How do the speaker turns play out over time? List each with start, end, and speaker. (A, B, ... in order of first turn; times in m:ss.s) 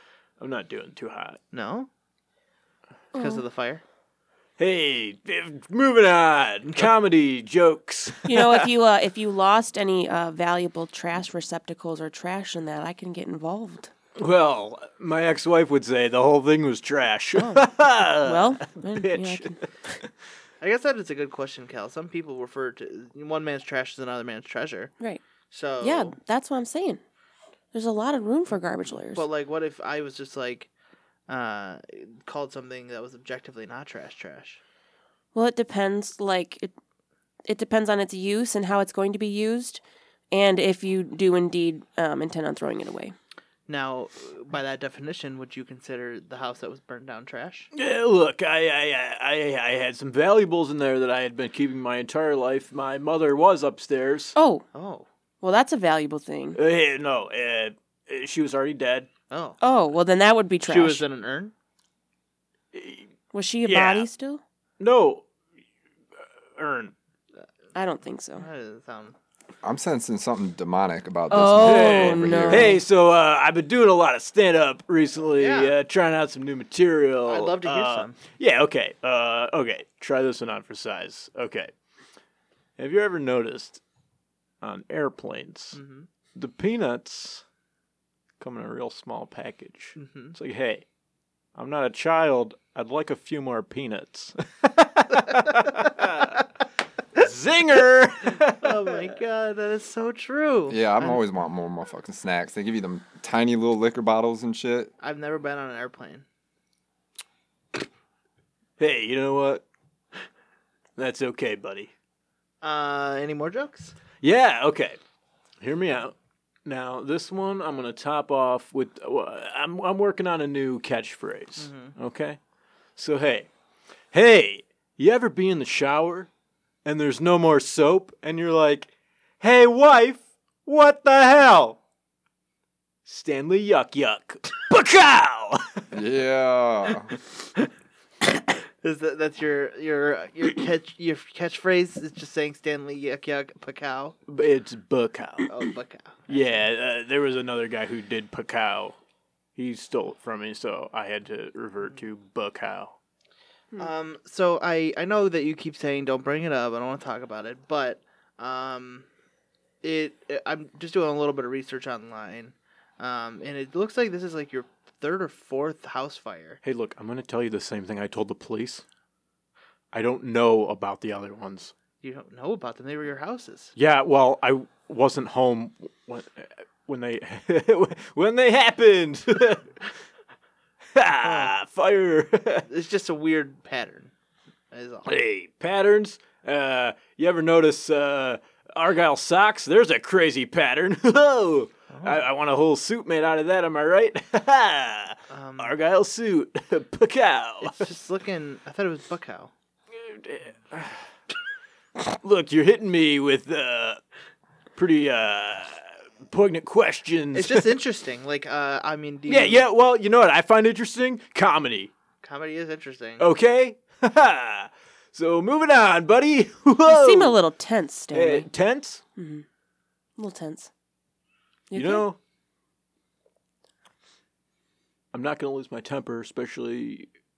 0:00.4-0:01.4 A
0:01.5-0:01.9 B
0:03.1-0:03.4 C
0:03.1-0:03.8 B
0:04.6-0:08.7 A
0:08.2-0:13.9 C
0:14.2-0:19.6 A
0:17.3-0:17.7 C
0:18.2-0:20.0 C
0:20.6-0:24.9 B
0:25.5-0:26.1 B
0:25.8-0:27.0 C
0:27.7-0:29.2 C
0:29.1-0:30.7 B
0:31.3-0:34.6 B
0:35.3-0:36.7 C
0:37.5-0:39.8 C
0:40.3-0:43.1 C
0:43.7-0:47.7 B
0:47.7-0:54.3 A
0:54.4-0:54.6 C
0:54.7-0:55.1 B
0:55.4-0:56.6 C
0:56.6-0:59.1 A
0:59.3-0:59.6 B
0:59.6-1:01.0 C
1:00.6-1:01.5 B
1:02.7-1:03.1 A
1:03.3-1:04.4 C
1:03.6-1:04.1 A
1:04.8-1:05.2 A
1:06.5-1:06.9 A
1:07.7-1:08.4 C
1:08.4-1:09.2 B
1:09.6-1:12.8 D
1:11.3-1:12.8 C
1:11.6-1:21.7 A
1:15.3-1:15.7 B
1:17.3-1:18.2 B
1:22.8-1:23.8 A
1:24.6-1:25.8 A
1:25.7-1:26.1 B
1:26.3-1:27.4 A
1:28.4-1:30.8 A
1:30.0-1:30.3 B
1:31.5-1:36.4 A
1:37.1-1:39.0 A
1:38.6-1:41.2 B
1:40.7-1:44.9 D
1:45.0-1:46.2 B
1:48.8-1:49.6 A
1:51.0-1:51.9 A
1:52.6-1:53.9 B
1:54.2-1:55.0 A
1:55.6-2:02.4 A
2:01.6-2:01.9 B
2:03.0-2:03.5 A
2:04.1-2:06.3 A
2:06.8-2:11.8 A
2:13.0-2:15.9 A
2:15.9-2:17.1 D
2:18.8-2:24.2 B
2:24.3-2:25.5 A
2:25.5-2:26.6 B
2:26.3-2:29.0 A
2:29.6-2:33.0 A
2:33.8-2:39.1 B
2:39.8-2:46.6 B
2:46.6-2:48.8 A
2:49.9-2:51.7 A
2:52.0-2:53.7 B
2:53.8-2:59.7 A
3:00.9-3:02.7 A
3:01.2-3:01.5 B
3:02.7-3:04.1 B
3:04.7-3:05.1 B
3:05.0-3:17.9 A
3:11.9-3:12.3 B
3:15.3-3:15.7 B
3:17.6-3:19.5 B
3:19.9-3:21.0 A
3:22.0-3:24.0 A
3:24.8-3:27.7 A
3:27.3-3:29.6 B
3:29.3-3:31.9 A
3:32.2-3:33.3 B
3:33.2-3:37.4 A
3:36.8-3:38.5 C
3:38.1-3:39.0 A
3:39.2-3:39.4 C
3:40.2-3:40.7 C
3:41.7-3:42.0 C
3:41.7-3:42.2 A
3:45.1-3:47.1 A